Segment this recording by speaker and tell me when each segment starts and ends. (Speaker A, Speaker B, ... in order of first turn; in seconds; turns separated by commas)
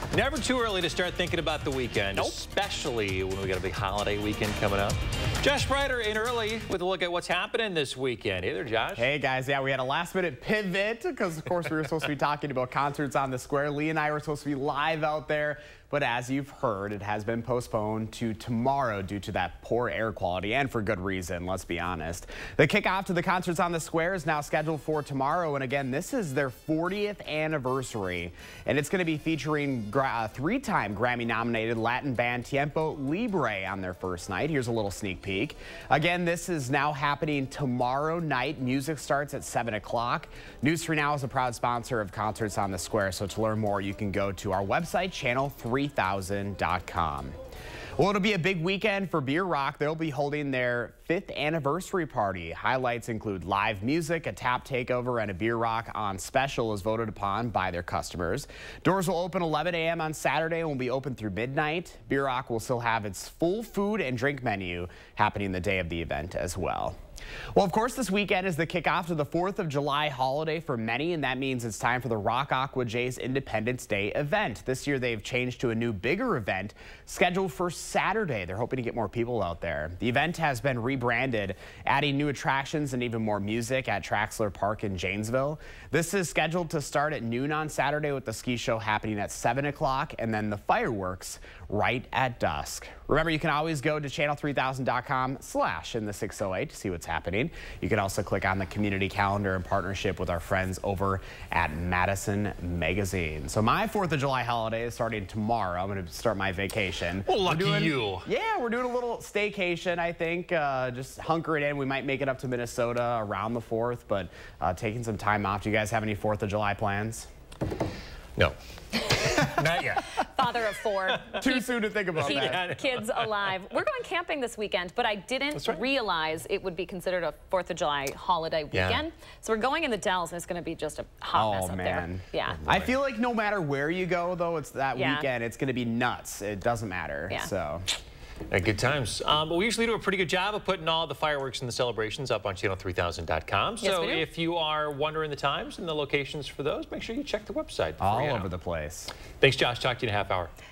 Speaker A: 0.1-9.1, Speaker B: 9.0-47.4, Speaker B: 48.0-67.0, Speaker B: 67.6-117.3, Speaker A: 107.3-108.3, Speaker A: 118.4-121.4, Speaker C: 119.1-119.5, Speaker C: 120.1-121.7, Speaker B: 121.4-122.6, Speaker A: 122.2-123.5, Speaker C: 122.2-132.6, Speaker A: 125.6-125.8, Speaker A: 128.7-129.0, Speaker B: 131.3-137.9, Speaker A: 132.5-132.9, Speaker C: 134.9-135.3, Speaker A: 138.5-148.5, Speaker C: 143.8-144.3, Speaker B: 148.0-149.1, Speaker A: 149.4-150.5